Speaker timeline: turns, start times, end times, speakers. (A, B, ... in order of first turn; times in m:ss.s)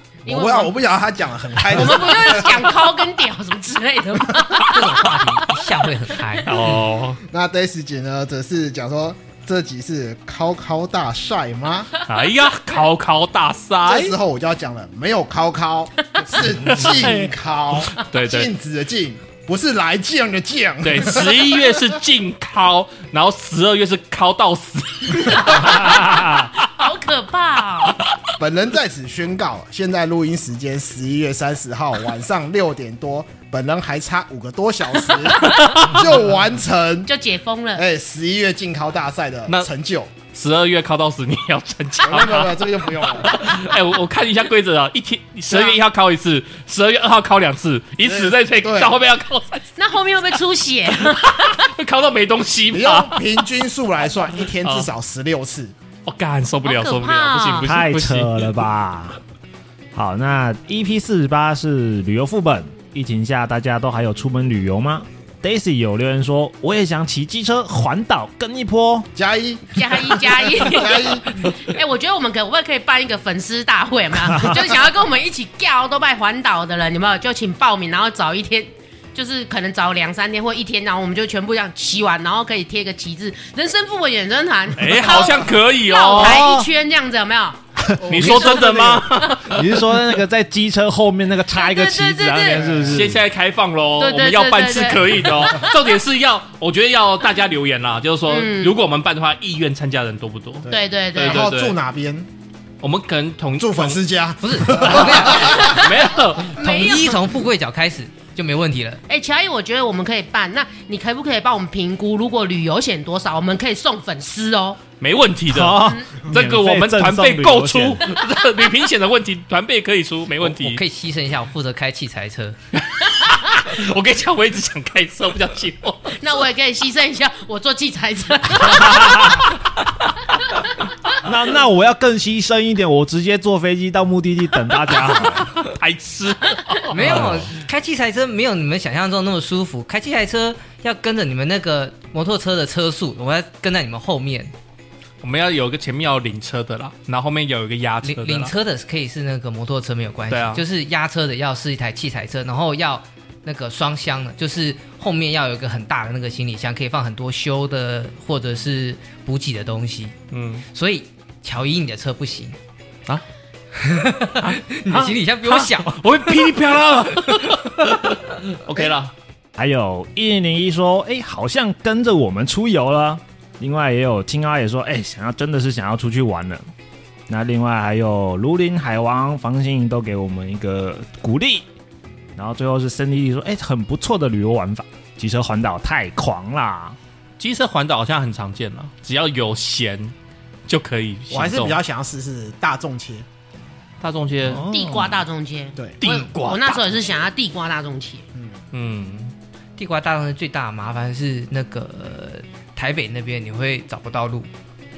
0:00.2-0:00.8 A
0:00.2-0:02.7 B
0:01.6-0:06.2 A
0:04.7-0:06.8 C
0:06.4-0:07.2 D
0:07.2-0:11.9 B
0:12.0-0:14.1 D
0:13.8-0:21.8 B
0:16.5-0:17.3 D
0:18.0-0:18.5 D
0:20.8-0:26.7 D
0:25.2-0:28.0 A
0:28.0-0:28.3 D
0:28.4-0:37.1 B
0:35.4-0:36.0 D
0:37.1-0:37.8 A
0:37.7-0:40.1 B
0:40.3-0:49.7 D
0:42.0-0:43.6 B
0:45.5-0:45.8 B
0:48.0-0:48.9 B
0:49.8-0:51.7 A
0:51.0-0:53.4 D
0:52.7-0:55.7 B
0:54.6-0:54.9 D
0:56.0-0:58.5 D
0:56.6-0:57.7 A
0:57.6-0:59.2 E
0:59.9-1:09.1 E
1:09.1-1:11.5 B
1:09.7-1:27.6 A
1:24.8-1:26.4 D
1:26.2-1:26.7 E
1:28.0-1:29.0 B
1:28.1-1:29.6 D
1:28.1-1:29.6 A
1:29.5-1:33.2 E
1:31.5-1:32.7 A
1:32.5-1:33.1 B
1:32.9-1:41.8 D
1:34.0-1:35.7 A
1:38.3-1:38.8 A
1:40.6-1:42.3 B
1:40.7-1:41.5 A
1:42.8-1:44.0 D
1:43.6-1:45.9 B
1:44.4-1:45.7 C
1:45.3-1:46.9 D
1:45.3-1:47.3 A
1:46.6-1:49.0 C
1:49.1-1:54.8 A
1:55.0-2:00.8 D
1:55.5-1:58.0 E
1:55.8-1:56.2 A
2:00.4-2:02.6 C
2:02.7-2:06.2 D
2:06.2-2:09.5 A
2:08.8-2:09.4 E
2:11.2-2:15.6 E
2:15.1-2:17.3 D
2:16.9-2:24.5 C
2:17.0-2:17.5 E
2:25.2-2:28.5 D
2:28.0-2:40.2 C
2:30.3-2:30.6 D
2:40.3-2:40.6 D
2:40.7-2:42.6 C
2:43.7-2:46.6 C
2:44.4-2:49.1 D
2:47.1-2:48.1 C
2:49.6-2:56.6 E
2:57.3-3:01.6 E
3:02.4-3:07.0 E
3:07.4-3:10.1 D
3:10.7-3:11.8 D
3:11.3-3:13.2 B
3:14.0-3:14.6 D
3:14.4-3:15.2 E
3:14.6-3:18.2 A
3:16.0-3:17.0 D
3:18.7-3:19.3 D
3:19.8-3:24.5 C